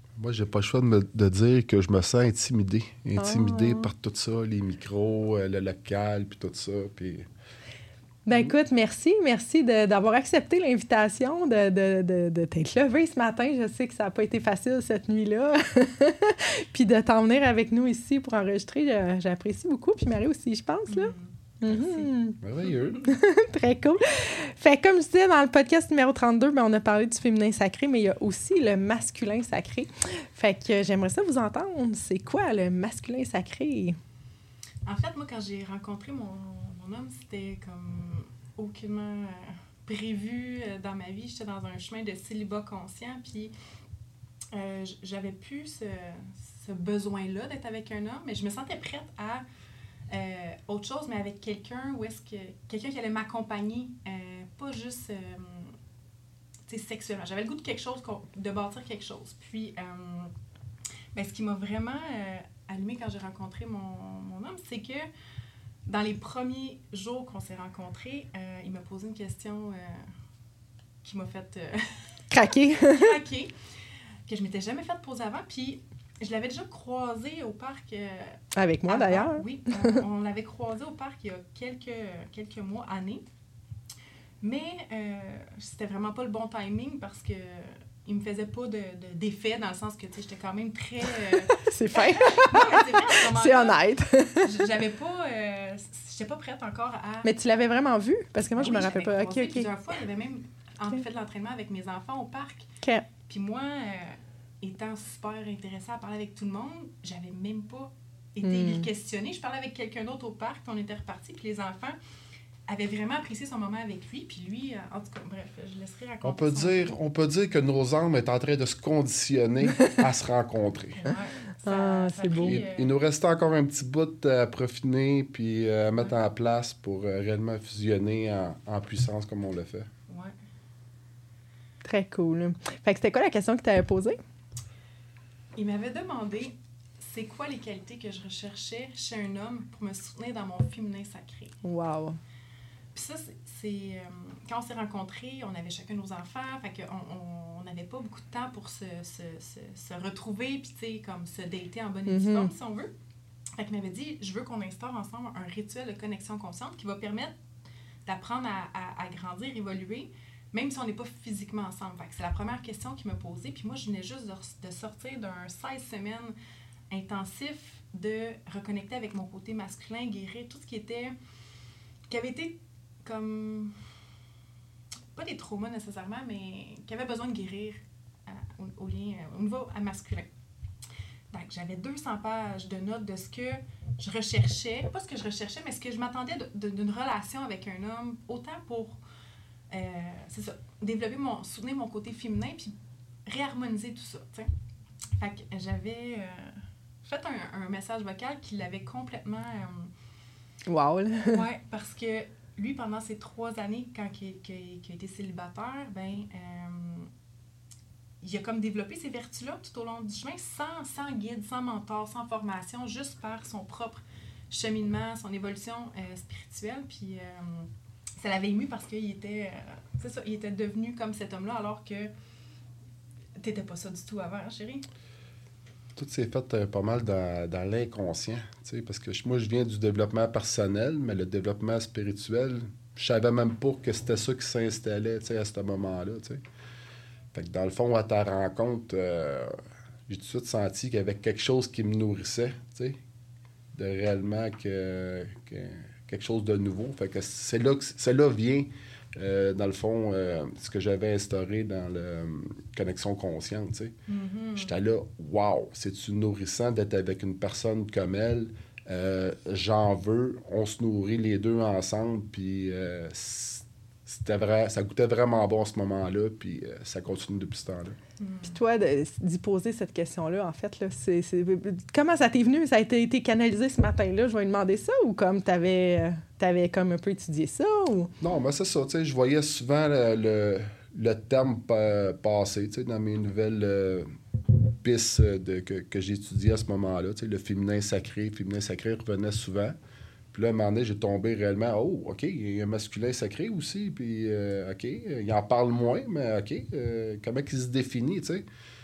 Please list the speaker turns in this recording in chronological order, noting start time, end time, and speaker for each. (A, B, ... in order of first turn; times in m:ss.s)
0:00.2-0:07.3 A
0:03.2-0:03.9 B
0:08.3-0:22.4 B
0:20.9-0:22.1 C
0:22.4-0:23.0 A
0:23.0-0:34.0 B
0:34.8-0:43.5 C
0:44.5-0:49.4 C
0:50.1-0:55.8 C
0:56.7-1:00.3 C
1:01.1-1:05.1 C
1:05.9-1:10.0 C
1:11.0-1:12.2 C
1:12.3-1:13.2 B
1:12.8-1:13.5 C
1:14.3-1:23.2 C
1:18.6-1:20.0 B
1:24.4-1:33.8 C
1:31.6-1:34.6 B
1:34.4-1:37.3 C
1:37.2-1:39.7 B
1:38.5-1:42.7 C
1:43.3-1:52.0 C
1:48.4-1:48.9 B
1:52.7-1:57.0 C
1:56.2-2:01.1 A
2:01.0-2:02.9 C
2:01.6-2:02.6 B
2:02.4-2:09.9 A
2:10.1-2:10.3 C
2:11.8-2:14.2 B
2:15.6-2:21.5 C
2:21.6-2:22.2 B
2:22.9-2:32.9 C
2:32.1-2:32.5 B
2:33.6-2:37.3 C
2:38.0-2:46.4 C
2:46.9-2:51.2 C
2:52.1-2:53.8 C
2:55.1-3:00.3 C
3:01.3-3:09.0 C
3:09.7-3:12.7 C
3:13.3-3:14.5 C
3:15.2-3:19.9 C
3:20.7-3:21.4 B
3:21.3-3:27.1 C
3:28.2-3:42.1 C
3:43.4-3:44.8 C
3:46.0-3:56.4 A
3:57.3-3:59.5 A
4:00.1-4:03.0 A
4:03.7-4:13.9 A
4:14.1-4:14.7 C
4:14.6-4:28.0 A
4:28.2-4:28.6 C
4:28.4-4:38.1 B
4:38.2-4:44.1 A
4:44.8-4:49.8 A
4:50.3-4:58.5 A